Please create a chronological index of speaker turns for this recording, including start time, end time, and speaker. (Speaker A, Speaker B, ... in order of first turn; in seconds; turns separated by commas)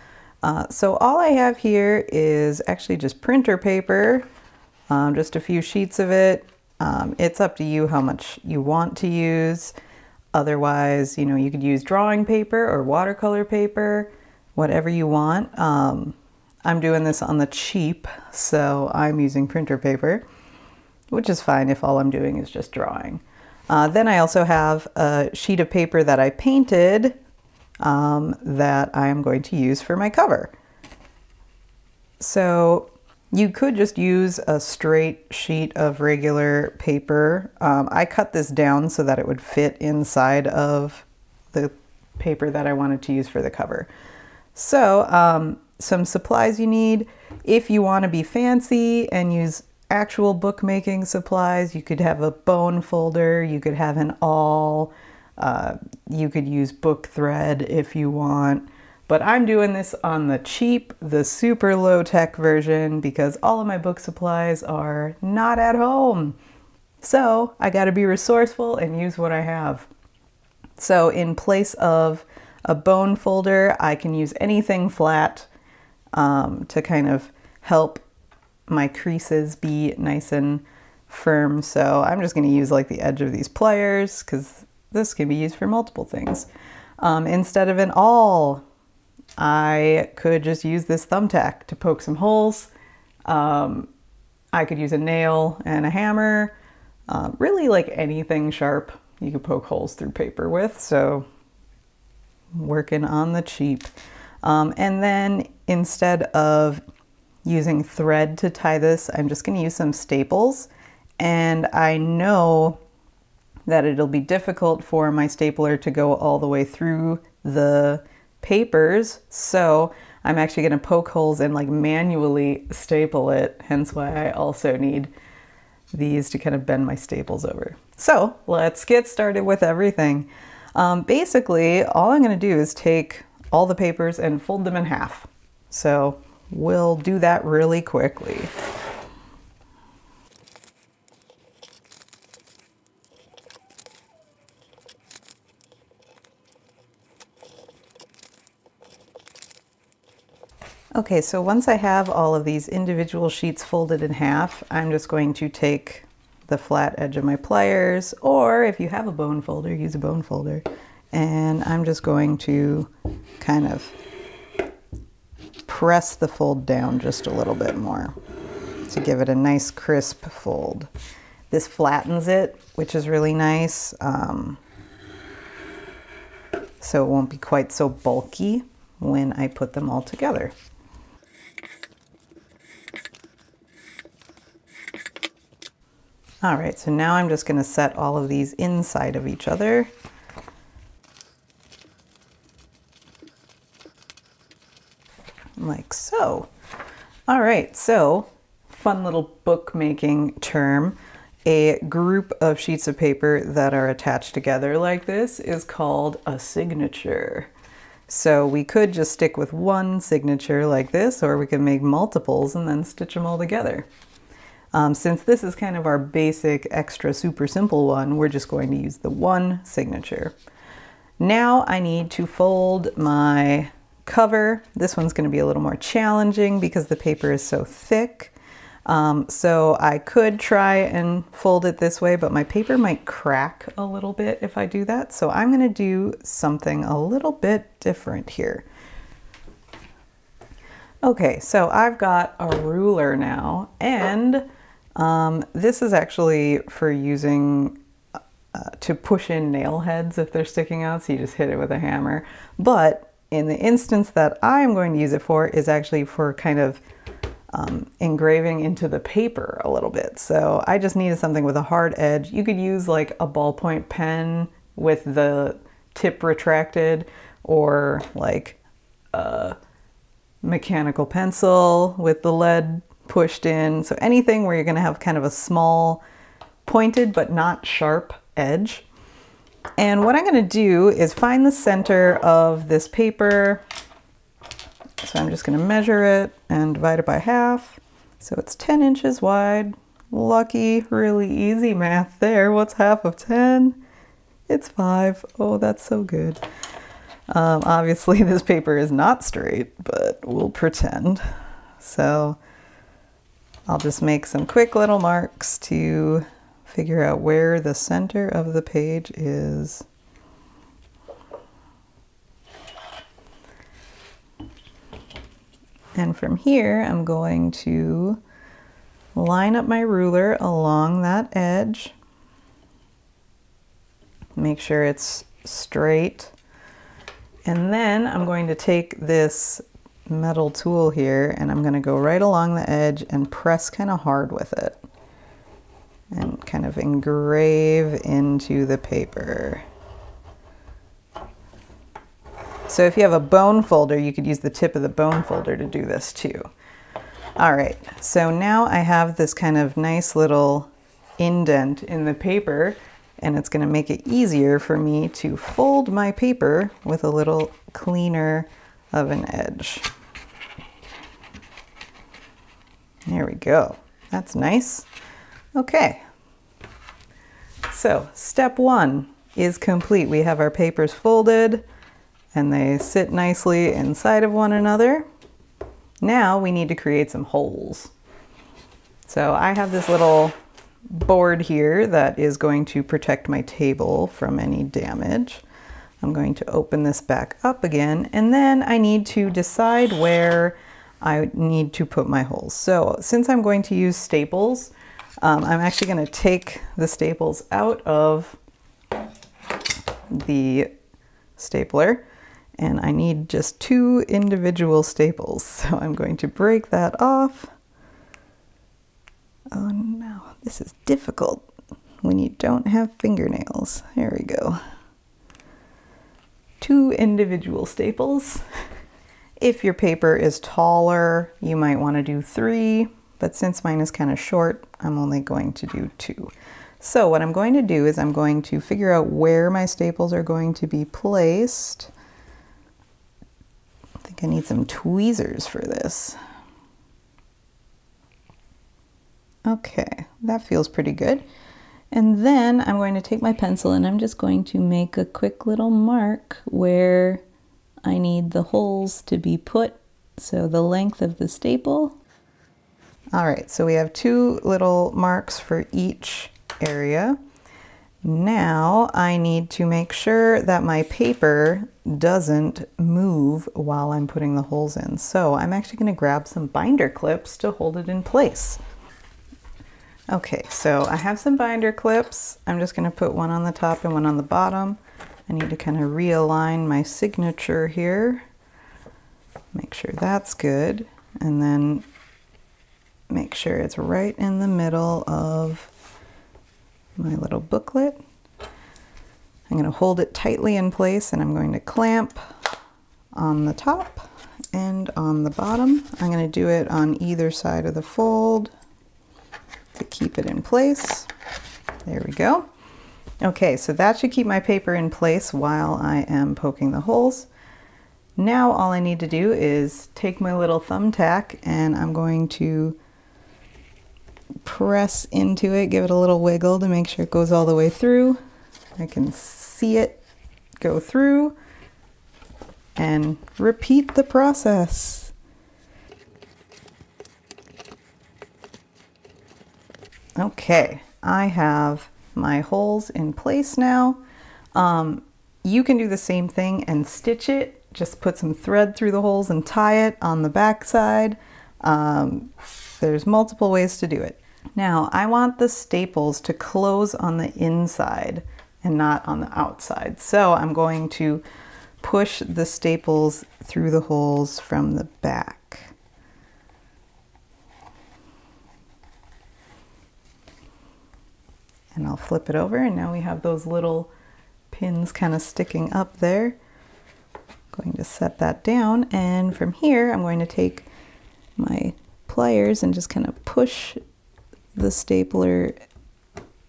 Speaker A: 0.4-4.2, Speaker A: 4.9-9.7, Speaker A: 10.3-20.2, Speaker A: 21.1-27.2, Speaker A: 27.8-30.5, Speaker A: 32.2-43.9, Speaker A: 44.5-66.4, Speaker A: 67.0-69.9, Speaker A: 70.8-75.5, Speaker A: 76.1-78.0, Speaker A: 78.7-86.5, Speaker A: 87.0-88.6, Speaker A: 89.4-92.7, Speaker A: 93.3-93.9, Speaker A: 94.5-96.5, Speaker A: 97.1-101.3, Speaker A: 102.5-103.9, Speaker A: 104.4-106.8, Speaker A: 107.5-112.8, Speaker A: 113.7-125.1, Speaker A: 125.9-138.5, Speaker A: 150.9-164.0, Speaker A: 165.7-168.1, Speaker A: 168.8-170.9, Speaker A: 171.5-174.6, Speaker A: 176.8-180.5, Speaker A: 186.4-189.9, Speaker A: 195.6-196.5, Speaker A: 197.3-207.5, Speaker A: 208.1-213.9, Speaker A: 214.7-220.3, Speaker A: 221.2-228.3, Speaker A: 228.8-238.7, Speaker A: 241.0-247.8, Speaker A: 248.5-256.8, Speaker A: 257.5-268.6, Speaker A: 269.1-269.6, Speaker A: 270.4-276.0, Speaker A: 276.6-278.9, Speaker A: 279.8-283.6, Speaker A: 285.0-293.8, Speaker A: 294.5-296.4, Speaker A: 297.3-301.2, Speaker A: 301.8-302.4, Speaker A: 303.7-309.8, Speaker A: 315.9-318.2, Speaker A: 319.1-321.9, Speaker A: 324.4-326.3, Speaker A: 327.4-334.8, Speaker A: 336.1-339.6, Speaker A: 342.7-346.5, Speaker A: 347.4-359.9, Speaker A: 363.1-364.9, Speaker A: 365.6-366.0, Speaker A: 367.7-371.6, Speaker A: 372.3-375.1, Speaker A: 376.0-377.9, Speaker A: 379.1-380.3, Speaker A: 380.9-385.4, Speaker A: 386.0-398.4, Speaker A: 400.1-400.7, Speaker A: 401.4-402.0, Speaker A: 402.6-407.5, Speaker A: 409.5-411.4, Speaker A: 412.0-414.6, Speaker A: 416.6-418.4, Speaker A: 419.4-431.9, Speaker A: 434.0-436.2, Speaker A: 439.4-441.2, Speaker A: 441.9-447.2, Speaker A: 447.8-452.0, Speaker A: 453.1-457.2, Speaker A: 458.0-468.6, Speaker A: 470.1-478.2, Speaker A: 479.5-481.9, Speaker A: 483.1-485.7, Speaker A: 487.0-488.0, Speaker A: 489.5-492.2, Speaker A: 493.1-498.5, Speaker A: 499.8-501.1, Speaker A: 501.9-502.5, Speaker A: 503.2-507.3, Speaker A: 508.2-512.8, Speaker A: 514.4-518.2, Speaker A: 518.8-520.0, Speaker A: 520.6-521.4, Speaker A: 522.8-525.1, Speaker A: 530.2-534.0, Speaker A: 534.5-551.2, Speaker A: 551.8-555.7, Speaker A: 561.7-563.9, Speaker A: 564.5-566.4, Speaker A: 567.5-570.6, Speaker A: 571.4-573.8, Speaker A: 574.5-575.5